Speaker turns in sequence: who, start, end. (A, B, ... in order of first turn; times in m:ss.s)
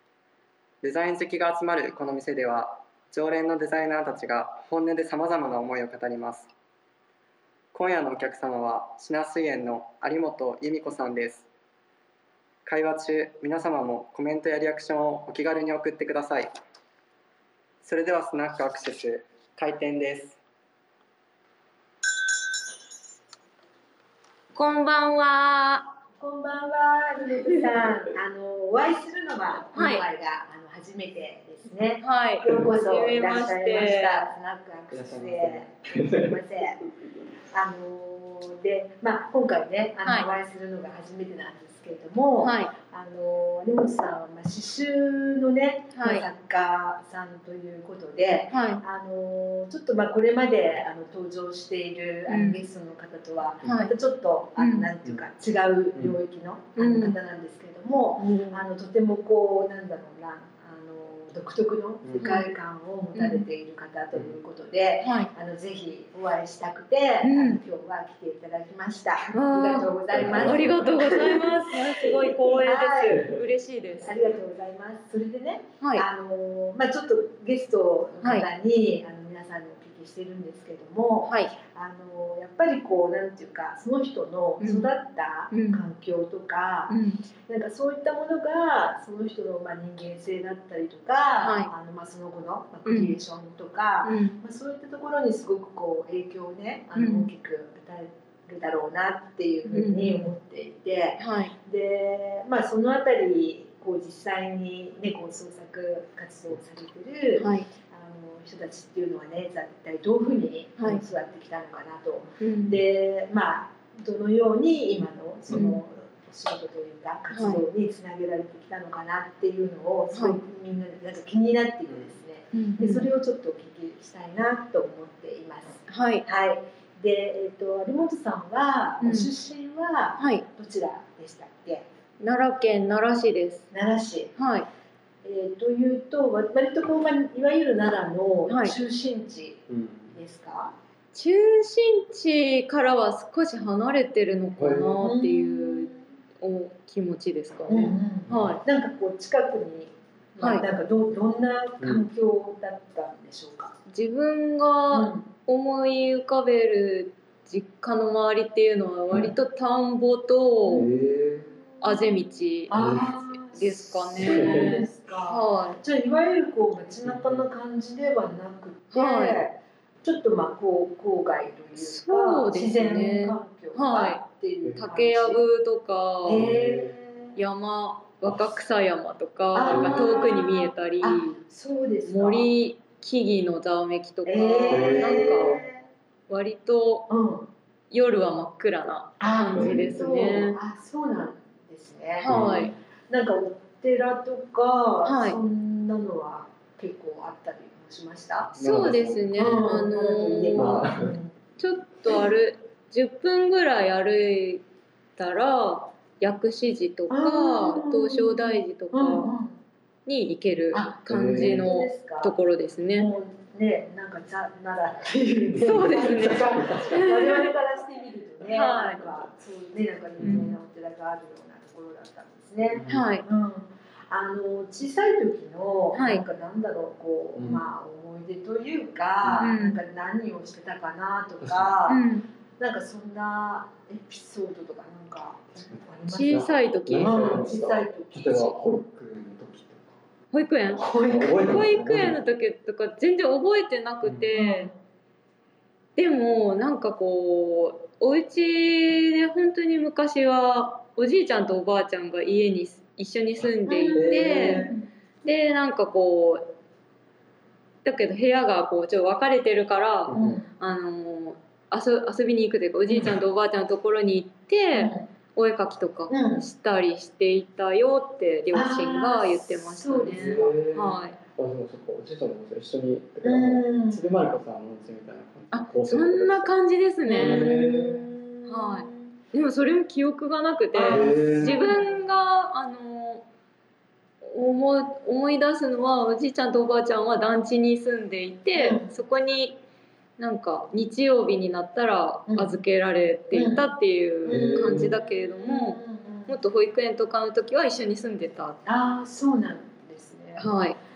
0:00.8-0:06.5 A
0:07.7-0:11.5 A
0:12.6-0:16.5 A
0:17.8-0:20.4 A
0:24.6-0:25.9 B
0:26.2-0:36.8 C
0:29.7-0:30.0 B
0:32.0-0:34.2 B
0:34.9-0:36.4 A
0:37.5-1:13.3 C
0:42.4-0:42.7 B
0:46.0-0:46.2 B
0:48.5-0:48.8 B
0:52.3-0:52.6 B
0:53.6-0:53.9 B
0:54.6-0:54.9 B
0:56.8-0:57.2 B
0:58.2-0:58.6 B
1:02.0-1:02.3 A
1:02.2-1:02.5 B
1:03.1-1:03.4 B
1:05.0-1:05.3 B
1:07.2-1:07.6 B
1:09.3-1:14.3 B
1:10.1-1:11.4 A
1:13.1-1:13.4 A
1:14.0-1:27.0 C
1:18.2-1:18.5 B
1:21.2-1:21.5 B
1:24.6-1:24.9 B
1:25.5-1:25.8 B
1:26.9-1:27.2 B
1:27.5-2:11.8 C
1:31.4-1:31.7 B
1:32.9-1:33.2 B
1:34.0-1:34.4 B
1:37.0-1:37.3 B
1:39.6-1:40.3 B
1:41.2-1:41.5 B
1:47.4-1:47.7 B
1:52.4-1:52.8 B
1:55.5-1:55.8 B
1:57.3-1:57.6 B
2:00.1-2:00.4 B
2:02.5-2:03.1 B
2:05.9-2:06.2 B
2:09.0-2:09.3 B
2:10.2-2:10.4 B
2:12.2-2:13.7 B
2:13.7-2:14.3 C
2:14.4-2:14.7 B
2:15.2-2:20.7 C
2:18.5-2:18.8 B
2:19.7-2:20.1 A
2:21.1-2:28.0 B
2:24.6-2:25.0 A
2:25.0-2:26.0 C
2:27.7-2:33.8 C
2:28.3-2:28.6 A
2:30.4-2:30.7 B
2:31.8-2:32.1 A
2:33.9-2:40.9 B
2:34.9-2:35.2 C
2:40.7-2:41.5 A
2:41.8-2:45.8 B
2:42.7-2:55.4 C
2:42.7-2:43.2 A
2:44.1-2:44.8 A
2:47.0-2:47.4 A
2:48.9-2:49.4 B
2:51.8-2:54.2 B
2:54.8-2:56.5 B
2:56.2-2:57.3 C
2:56.3-2:57.0 A
2:57.4-3:01.4 B
2:58.2-2:58.5 A
2:59.5-3:02.5 C
2:59.7-3:00.4 A
3:02.1-3:05.6 B
3:04.2-3:05.8 C
3:04.7-3:05.6 A
3:06.3-3:07.1 B
3:07.1-3:07.5 C
3:07.9-3:10.6 B
3:09.2-3:18.5 C
3:09.5-3:10.0 A
3:12.2-3:12.8 B
3:12.2-3:12.7 A
3:15.0-3:15.4 B
3:18.5-3:19.8 A
3:18.6-3:20.9 B
3:19.4-3:21.3 C
3:20.5-3:21.2 A
3:21.6-3:24.6 B
3:25.2-3:29.3 B
3:27.1-3:29.5 C
3:30.1-3:33.1 B
3:30.7-3:32.3 C
3:31.1-3:31.7 A
3:32.9-3:52.0 C
3:35.5-3:37.2 A
3:35.6-3:37.5 B
3:38.5-3:39.0 B
3:40.2-3:40.5 A
3:40.2-3:40.5 B
3:42.6-3:43.1 A
3:42.9-3:43.2 B
3:45.9-3:46.2 B
3:47.4-3:47.6 A
3:49.2-3:49.5 A
3:49.4-3:49.8 B
3:51.4-3:51.7 A
3:51.9-3:52.3 B
3:52.6-3:56.5 C
3:55.5-4:00.0 A
3:56.1-3:57.5 B
3:57.0-3:58.5 C
4:00.3-4:04.7 B
4:00.7-4:01.5 C
4:01.0-4:02.2 A
4:04.0-4:04.3 A
4:04.3-4:04.7 C
4:06.0-4:14.7 B
4:13.7-4:14.8 C
4:14.0-4:14.7 A
4:15.2-4:16.5 B
4:17.8-4:31.2 B
4:20.1-4:20.4 A
4:20.1-4:20.5 C
4:24.7-4:25.0 C
4:26.1-4:26.4 C
4:28.5-4:30.6 C
4:30.1-4:36.5 A
4:33.2-4:34.0 C
4:35.5-4:37.6 B
4:37.0-4:39.0 C
4:37.1-4:38.1 A
4:38.5-4:43.2 B
4:40.7-4:42.0 C
4:40.9-4:41.6 A
4:44.2-4:49.6 B
4:48.5-4:48.9 C
4:50.2-4:58.6 B
4:53.3-4:53.6 C
4:54.2-4:56.4 C
4:54.3-4:55.0 A
4:58.6-5:00.4 C
5:00.4-5:00.8 B